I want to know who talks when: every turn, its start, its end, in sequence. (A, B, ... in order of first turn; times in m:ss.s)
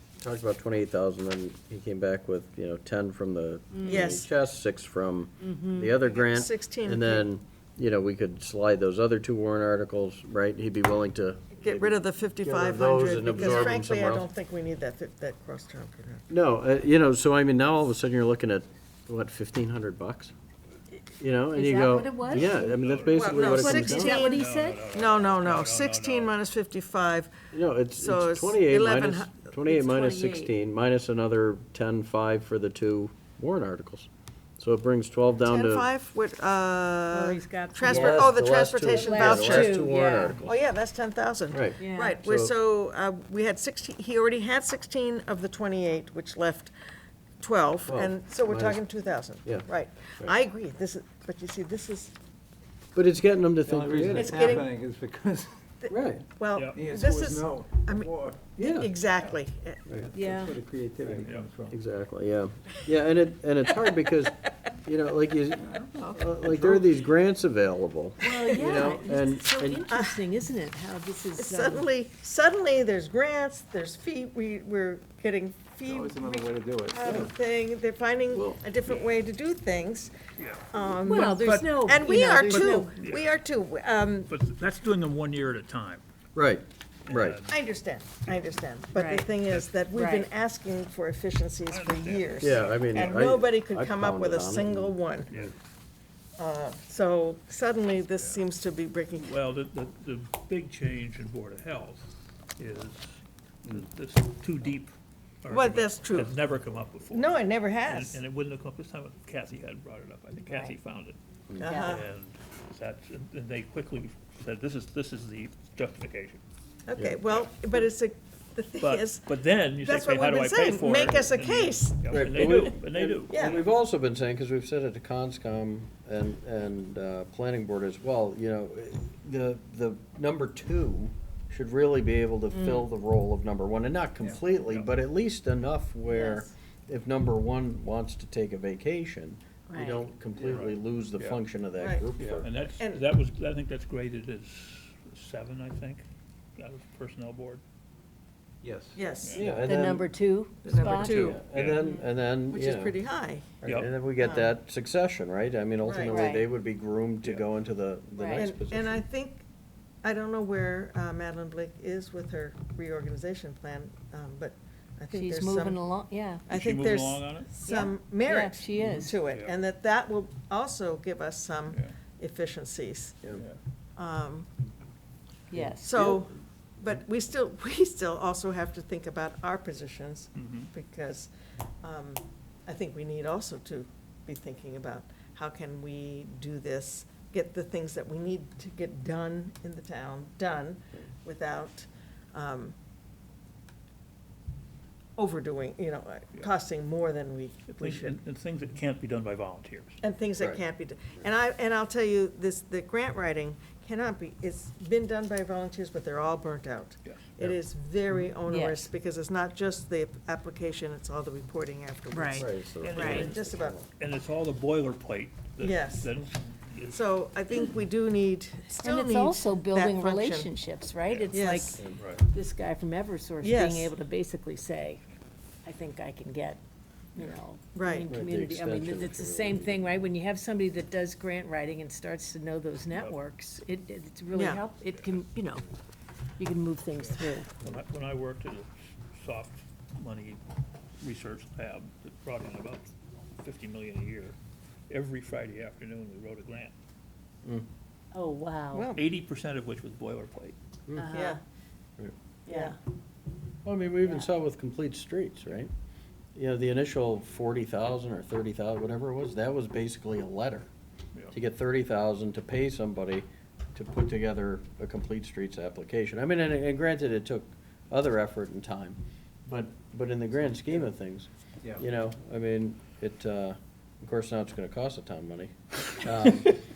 0:00.2-0:14.3 A
0:03.7-0:04.2 B
0:03.8-0:04.3 C
0:05.4-0:05.9 B
0:06.0-0:07.3 C
0:11.6-0:16.3 C
0:16.3-0:20.3 A
0:21.2-0:24.3 A
0:21.5-0:22.5 B
0:22.3-0:26.3 D
0:23.1-0:27.3 C
0:23.4-0:24.9 B
0:27.5-0:35.9 A
0:28.0-0:29.5 C
0:29.7-0:30.5 B
0:35.4-0:46.7 C
0:37.1-0:40.4 B
0:37.8-0:40.4 A
0:41.5-0:42.5 A
0:41.8-0:42.2 B
0:47.4-0:52.1 C
0:47.9-0:48.8 A
0:53.0-0:54.6 A
0:53.6-0:55.6 E
0:54.2-0:54.7 C
0:55.8-0:59.9 C
0:55.9-0:56.2 A
0:56.6-0:56.8 D
0:56.7-0:58.4 E
0:58.6-0:58.9 A
1:00.1-1:01.8 E
1:00.1-1:00.6 B
1:01.2-1:01.5 D
1:01.7-1:09.9 A
1:05.6-1:06.1 E
1:06.5-1:06.9 D
1:08.2-1:11.9 B
1:09.9-1:10.3 C
1:11.4-1:20.1 C
1:15.8-1:17.2 E
1:17.0-1:17.3 A
1:18.3-1:18.6 A
1:20.4-1:20.7 D
1:20.7-1:24.3 C
1:21.0-1:22.9 B
1:22.7-1:23.3 D
1:24.3-1:26.0 D
1:26.4-1:27.4 A
1:27.0-1:27.6 D
1:27.5-1:35.4 C
1:28.9-1:29.3 B
1:29.5-1:29.8 D
1:29.9-1:30.3 B
1:31.7-1:33.0 D
1:32.4-1:35.0 A
1:36.4-1:39.3 C
1:39.2-1:56.4 D
1:45.5-1:46.4 C
1:47.1-1:48.2 C
1:51.6-1:52.1 C
1:51.6-1:51.9 B
1:56.9-2:02.7 C
1:58.8-2:03.6 D
2:02.1-2:22.5 A
2:03.3-2:03.6 C
2:12.5-2:12.9 B
2:16.2-2:16.4 C
2:19.7-2:20.0 B
2:20.3-2:20.7 E
2:20.5-2:21.4 D
2:21.8-2:22.1 C
2:22.2-2:26.0 D
2:22.8-2:23.1 C
2:26.6-2:27.6 D
2:28.6-2:29.0 E
2:29.0-2:29.4 C
2:29.2-2:29.6 D
2:29.4-2:30.1 A
2:29.4-2:32.0 B
2:30.6-2:31.4 C
2:30.7-2:31.8 D
2:31.1-2:33.0 A
2:32.5-2:33.6 C
2:33.6-2:39.0 A
2:33.6-2:33.9 D
2:34.2-2:34.5 C
2:35.8-2:36.2 C
2:36.1-2:36.5 B
2:38.2-2:38.4 B
2:38.3-2:39.4 C
2:40.0-2:45.8 C
2:45.1-2:46.5 B
2:46.5-2:53.4 C
2:46.5-2:47.5 D
2:47.6-2:49.2 B
2:49.3-2:49.6 D
2:54.0-2:54.5 C
2:55.5-2:56.0 B
2:55.5-2:56.2 A
2:55.8-3:01.3 C
3:00.4-3:00.7 D
3:01.8-3:12.8 C
3:15.2-3:18.2 C
3:17.7-3:20.0 D
3:20.0-3:33.8 C
3:27.0-3:27.6 D
3:28.5-3:28.9 B
3:32.1-3:33.3 B
3:32.3-3:33.9 A
3:32.8-3:33.4 D
3:34.0-3:37.0 D
3:35.6-3:36.1 C
3:36.9-3:40.5 C
3:38.7-3:45.0 B
3:41.1-3:41.4 D
3:41.3-3:41.8 C
3:42.0-3:42.2 D
3:43.4-3:43.9 C
3:45.6-3:46.6 B
3:47.2-3:55.7 B
3:47.2-3:48.1 C
3:48.1-3:50.0 A
3:52.9-3:53.2 D
3:54.3-3:54.6 C
3:54.9-3:55.2 D
3:56.4-3:57.5 B
3:57.0-4:00.4 D
4:01.0-4:04.4 D
4:04.9-4:06.7 D
4:08.1-4:08.9 B
4:08.7-4:09.0 C
4:09.0-4:10.6 D
4:11.0-4:11.4 B
4:11.1-4:11.4 C
4:12.5-4:12.8 C
4:12.5-4:12.8 B
4:13.6-4:15.7 A
4:16.4-4:20.7 A
4:21.3-4:36.6 A